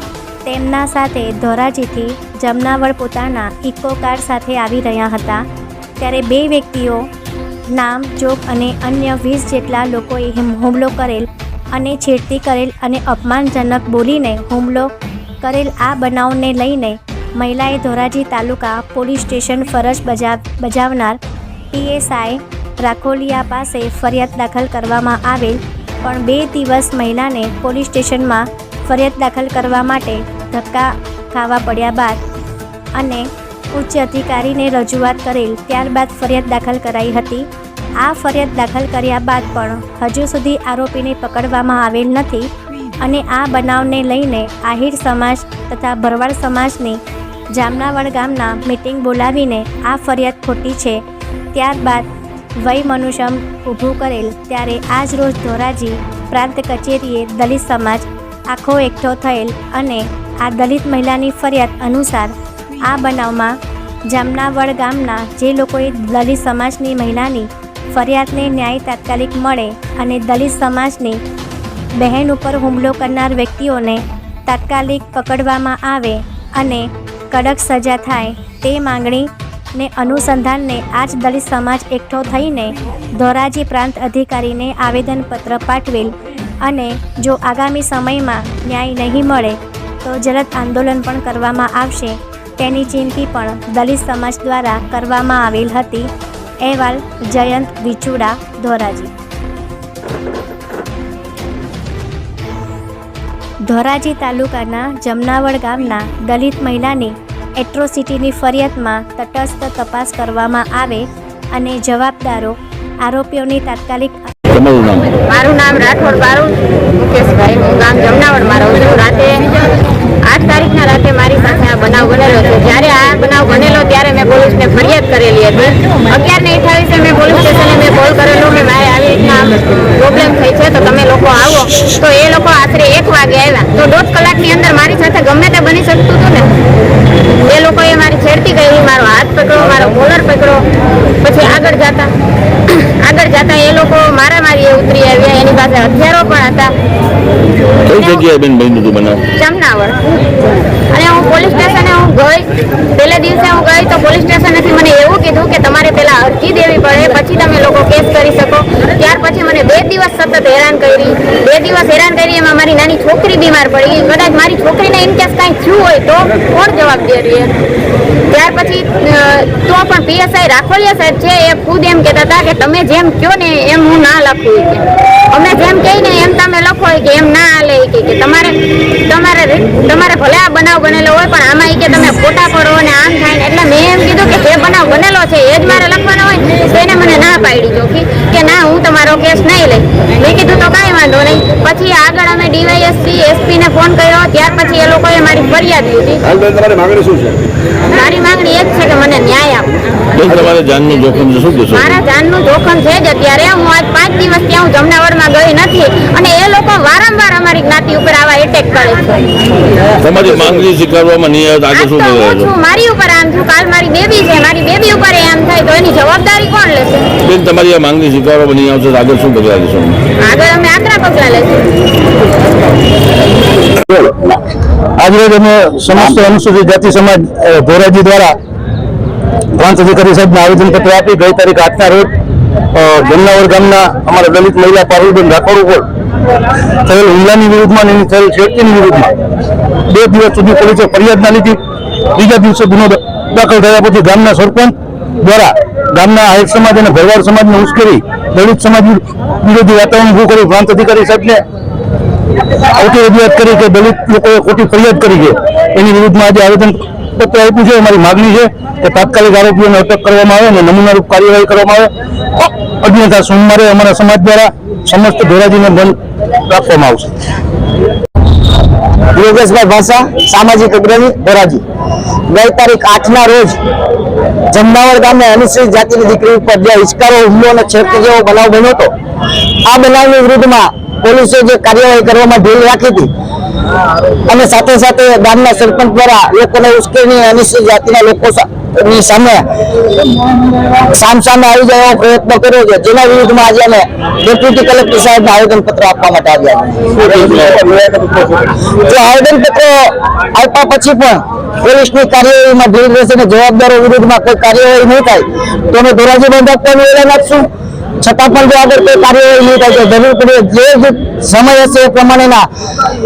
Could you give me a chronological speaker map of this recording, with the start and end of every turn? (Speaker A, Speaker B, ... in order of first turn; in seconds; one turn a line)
Speaker A: 0.4-5.4
Speaker A: 6.0-7.1
Speaker A: 7.7-14.9
Speaker A: 15.4-21.2
Speaker A: 21.7-32.2
Speaker A: 33.0-37.5
Speaker A: 38.0-42.5
Speaker A: 43.0-47.0
Speaker A: 47.5-51.0
Speaker A: 51.5-52.0
Speaker A: 52.6-63.6
Speaker A: 64.1-71.2
Speaker A: 72.0-96.1
Speaker A: 96.6-99.1
Speaker A: 103.7-114.3
Speaker B: 114.5-115.1
Speaker C: 115.3-119.5
Speaker C: 120.2-136.5
Speaker C: 137.4-140.6
Speaker C: 141.2-142.1
Speaker C: 142.7-146.7
Speaker B: 147.8-149.3
Speaker C: 147.9-148.2
Speaker C: 149.3-150.0
Speaker C: 150.9-167.5
Speaker C: 168.3-178.5
Speaker C: 179.0-196.2
Speaker C: 197.9-199.7
Speaker B: 200.2-202.0
Speaker C: 201.7-209.2
Speaker B: 210.0-212.5
Speaker C: 211.7-217.1
Speaker B: 217.2-220.0
Speaker C: 220.2-221.7
Speaker D: 223.8-224.3
Speaker D: 225.0-228.3
Speaker D: 229.6-232.1
Speaker D: 232.7-235.8
Speaker D: 236.8-239.1
Speaker D: 239.9-241.6
Speaker D: 242.1-251.4
Speaker D: 252.7-265.9
Speaker D: 266.5-267.1
Speaker E: 269.1-271.6
Speaker E: 272.3-273.6
Speaker E: 274.5-278.9
Speaker E: 279.6-283.1
Speaker E: 284.3-289.4
Speaker E: 290.7-307.5
Speaker E: 308.0-312.4